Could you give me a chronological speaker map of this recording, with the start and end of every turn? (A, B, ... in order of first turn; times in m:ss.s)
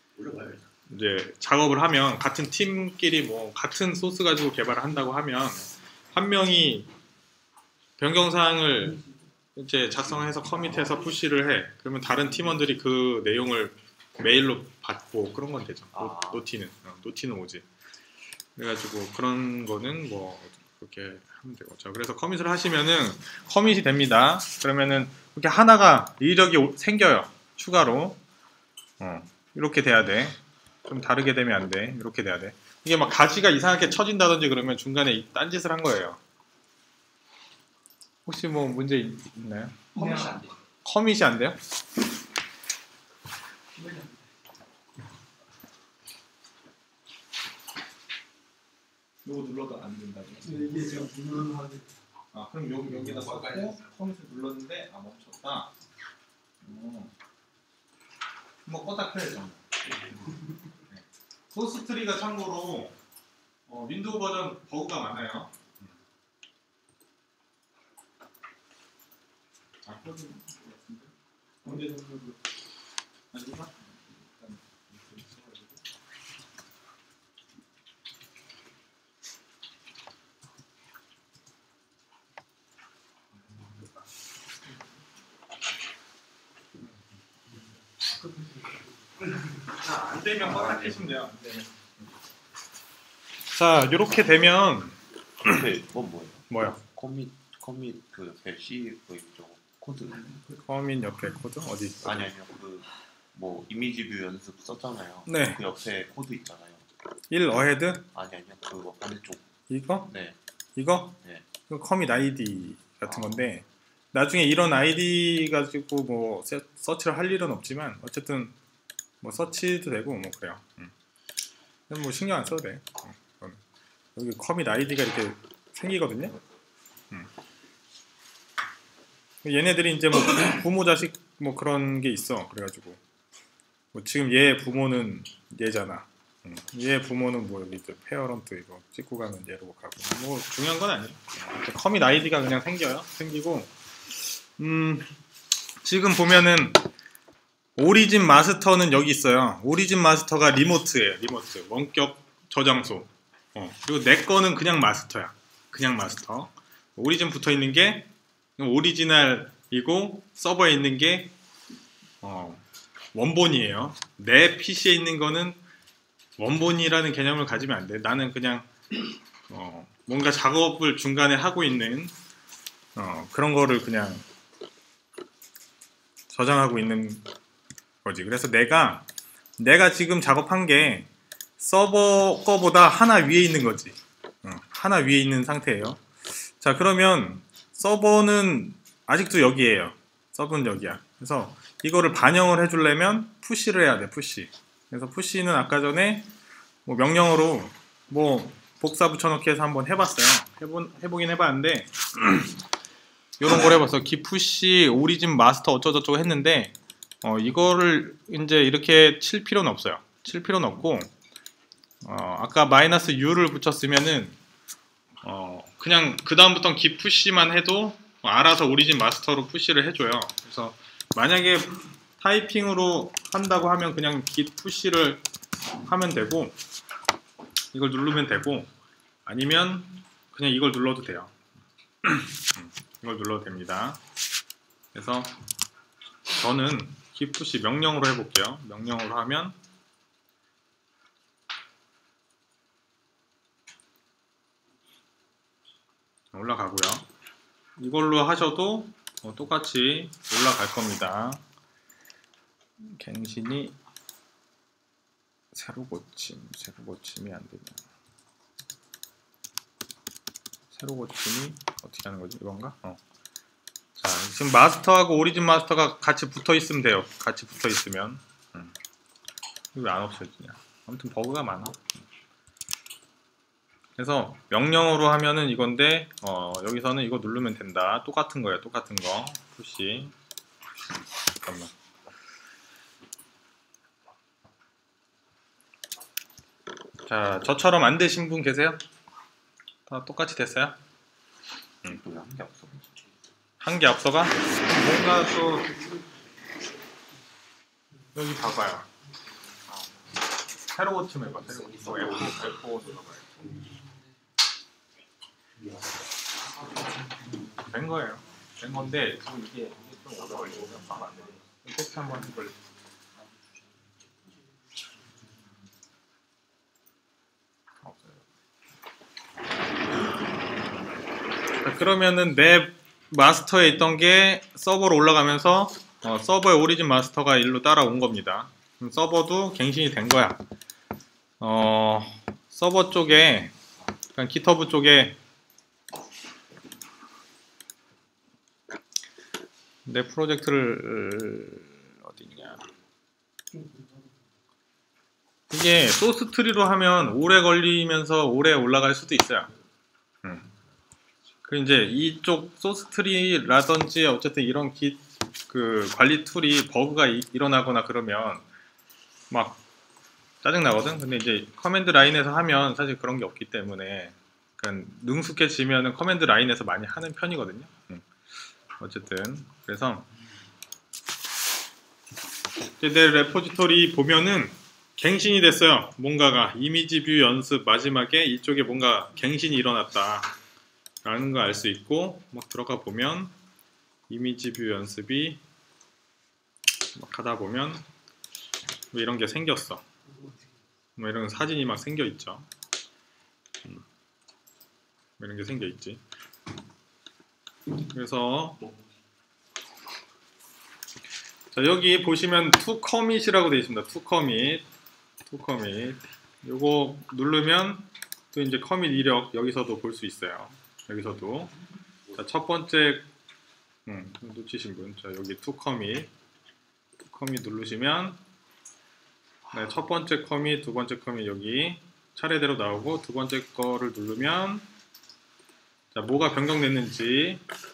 0:00.2-0:00.6 A
0:00.9-0:06.9 B
0:08.0-0:09.0 B
0:09.6-0:17.7 B
0:15.9-0:16.5 A
0:18.6-0:28.2 B
0:29.0-0:36.2 B
0:38.2-0:39.8 B
0:40.0-0:40.4 C
0:40.8-0:41.6 B
0:43.8-0:44.2 C
0:49.2-0:50.7 B
0:50.4-0:51.9 C
0:52.3-0:55.7 B
0:56.6-0:57.1 B
0:58.7-0:59.6 B
1:00.9-1:03.0 B
1:03.7-1:05.9 B
1:09.9-1:11.1 B
1:11.6-1:12.3 B
1:13.3-1:15.7 B
1:23.5-1:24.0 B
1:28.4-1:28.8 C
1:29.7-1:31.7 B
1:30.4-1:31.1 A
1:33.5-1:35.0 B
1:35.4-1:40.4 A
1:36.5-1:36.8 B
1:40.5-1:42.3 B
1:42.0-1:46.8 A
1:45.2-1:45.6 B
1:47.3-1:48.1 B
1:48.1-1:49.5 A
1:49.7-1:50.1 B
1:50.1-1:50.4 A
1:50.8-1:58.5 B
1:53.0-1:53.3 A
1:59.2-2:00.9 B
2:01.9-2:03.6 B
2:04.2-2:06.4 B
2:09.4-2:13.0 B
2:13.9-2:25.1 B
2:25.8-2:26.8 B
2:27.8-2:41.3 B
2:42.2-2:42.6 B
2:43.1-2:45.6 B
2:46.4-2:48.7 B
2:49.5-2:52.1 B
2:53.0-2:54.2 B
2:56.3-2:57.2 B
2:58.0-2:59.1 B
2:59.6-3:01.1 B
3:01.6-3:16.3 B
3:16.9-3:22.5 B
3:23.4-3:31.1 B
3:32.0-3:34.4 B
3:35.2-3:45.2 B
3:45.8-3:46.6 B
3:47.7-3:48.7 B
3:49.2-3:51.3 B
3:52.0-3:54.0 B
3:54.9-3:55.4 B
3:56.3-3:59.6 B
4:06.3-4:07.1 B
4:07.8-4:11.4 B
4:12.8-4:13.8 B
4:15.5-4:17.8 B
4:20.7-4:23.0 B
4:24.0-4:28.7 B
4:29.7-4:32.0 B
4:34.0-4:40.1 B
4:41.4-4:41.7 B
4:47.1-4:48.8 B
4:49.9-4:50.8 B
4:51.8-4:53.2 A
4:53.6-4:55.8 B
4:58.2-4:58.9 B
5:00.7-5:03.3 B
5:01.7-5:02.2 A
5:07.6-5:12.6 B
5:17.8-5:18.2 B
5:21.6-5:30.4 B
5:31.4-5:33.6 B
5:34.2-5:35.2 B
5:39.8-5:42.6 B
5:43.5-5:44.1 C
5:45.5-5:49.5 B
5:51.4-5:58.4 B
5:59.3-5:59.6 B
6:00.4-6:08.1 B
6:08.8-6:10.1 B
6:12.8-6:20.3 B
6:21.0-6:23.3 B
6:24.1-6:25.4 B
6:26.9-6:27.8 B
6:28.9-6:29.8 B
6:31.0-6:32.5 B
6:35.2-6:36.0 B
6:37.9-6:38.6 B
6:41.5-6:44.6 B
6:45.3-6:51.5 B
6:52.1-6:53.1 B
6:53.8-6:56.1 B
6:57.1-6:58.2 B
6:59.5-7:04.7 B
7:05.9-7:07.4 B